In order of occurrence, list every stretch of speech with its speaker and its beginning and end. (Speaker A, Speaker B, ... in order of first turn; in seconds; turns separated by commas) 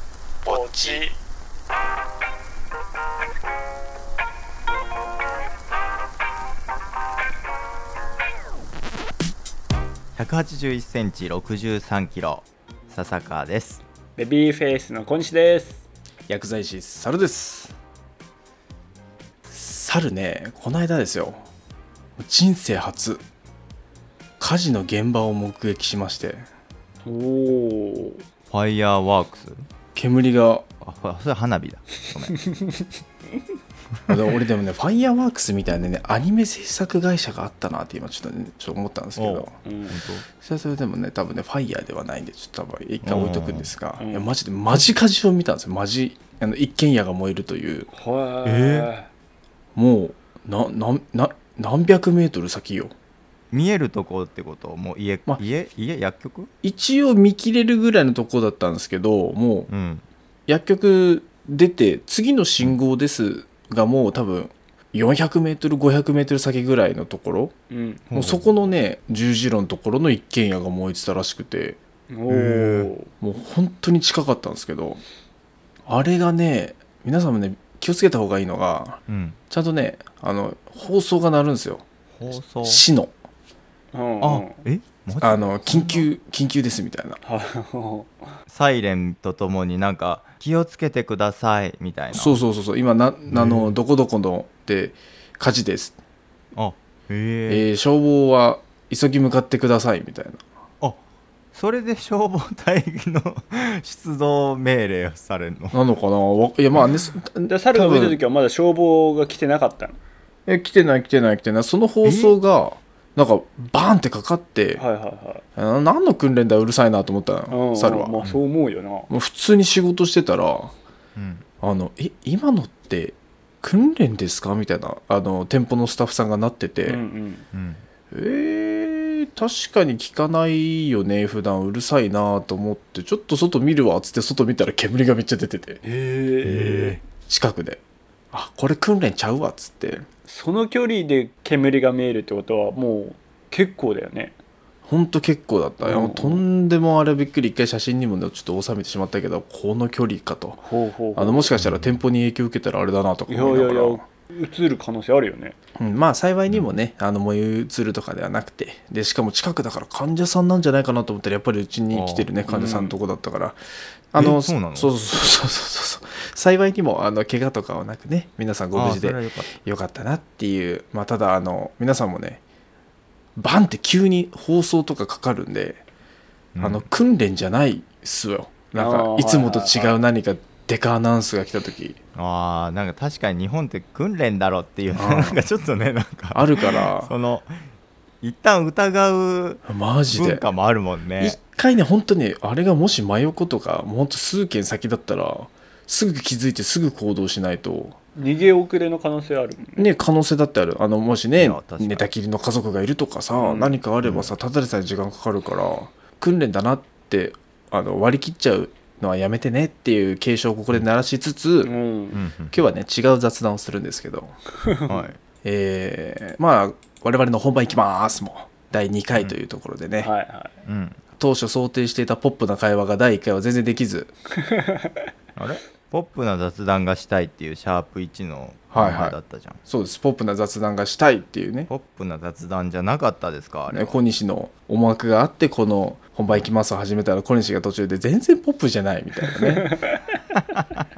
Speaker A: 0.5-1.1, Speaker B: 0.5-1.1, Speaker C: 10.2-13.8, Speaker B: 14.2-15.8, Speaker A: 16.3-17.7, Speaker A: 19.5-21.4, Speaker A: 22.2-23.2, Speaker A: 24.4-26.5, Speaker B: 27.1-28.2, Speaker C: 28.5-29.6, Speaker A: 29.9-30.7, Speaker C: 30.8-32.4, Speaker B: 32.4-32.9, Speaker A: 34.1-39.5, Speaker C: 39.2-40.3, Speaker B: 39.6-40.0, Speaker A: 40.4-47.9, Speaker C: 43.0-43.7, Speaker B: 44.0-44.3, Speaker B: 47.9-49.1, Speaker C: 48.5-48.9, Speaker A: 49.8-52.9, Speaker C: 53.5-56.5, Speaker A: 56.6-59.7, Speaker C: 59.7-60.0, Speaker A: 60.5-67.5, Speaker B: 67.7-68.1, Speaker C: 68.1-68.5, Speaker A: 68.2-71.8, Speaker B: 72.1-73.1, Speaker C: 72.3-72.9, Speaker A: 73.2-75.0, Speaker A: 75.9-81.8, Speaker C: 79.1-79.4, Speaker C: 82.1-82.8, Speaker A: 82.6-83.1, Speaker B: 83.9-84.6, Speaker C: 84.2-86.1, Speaker A: 85.2-87.2, Speaker B: 87.2-88.3, Speaker C: 88.5-92.4, Speaker A: 92.1-96.0, Speaker C: 93.3-93.7, Speaker C: 96.5-97.7, Speaker A: 97.5-100.4, Speaker C: 101.5-105.8, Speaker A: 105.7-108.2, Speaker B: 107.5-110.0, Speaker A: 110.5-114.8, Speaker C: 112.0-112.4, Speaker B: 114.8-115.4, Speaker A: 115.6-118.2, Speaker B: 117.5-119.1, Speaker A: 119.1-120.8, Speaker C: 121.2-121.4, Speaker A: 121.6-127.0, Speaker B: 126.8-127.5, Speaker C: 127.5-127.8, Speaker A: 128.1-135.8, Speaker B: 135.8-137.0, Speaker A: 136.4-137.8, Speaker A: 138.3-140.1, Speaker B: 140.3-144.3, Speaker A: 144.9-150.6, Speaker B: 145.8-146.4, Speaker B: 150.6-151.5, Speaker A: 151.2-154.0, Speaker C: 151.6-151.9, Speaker B: 153.3-155.6, Speaker A: 155.8-163.6, Speaker C: 161.9-162.3, Speaker B: 162.5-162.9, Speaker A: 164.1-172.4, Speaker C: 164.2-164.9, Speaker C: 168.7-169.6, Speaker A: 173.4-175.8, Speaker C: 176.6-176.8, Speaker A: 176.6-182.0, Speaker B: 178.8-180.0, Speaker C: 182.2-187.6, Speaker A: 184.9-185.4, Speaker A: 186.3-187.1, Speaker C: 188.2-191.4, Speaker A: 189.7-190.4, Speaker A: 191.2-198.0, Speaker B: 198.2-199.9, Speaker A: 199.8-211.7, Speaker C: 201.4-202.1, Speaker B: 203.4-203.8, Speaker C: 204.0-204.3, Speaker B: 211.6-212.2, Speaker C: 212.1-212.6, Speaker A: 212.5-214.3, Speaker B: 214.6-215.1, Speaker C: 214.9-215.2, Speaker A: 215.4-220.1, Speaker B: 220.0-220.6, Speaker C: 220.7-221.0, Speaker A: 221.2-224.1, Speaker B: 224.4-225.1, Speaker C: 225.4-229.6, Speaker A: 228.7-229.2, Speaker A: 229.7-231.7, Speaker C: 231.7-234.0, Speaker A: 233.7-239.7, Speaker B: 239.6-240.0, Speaker C: 240.6-240.8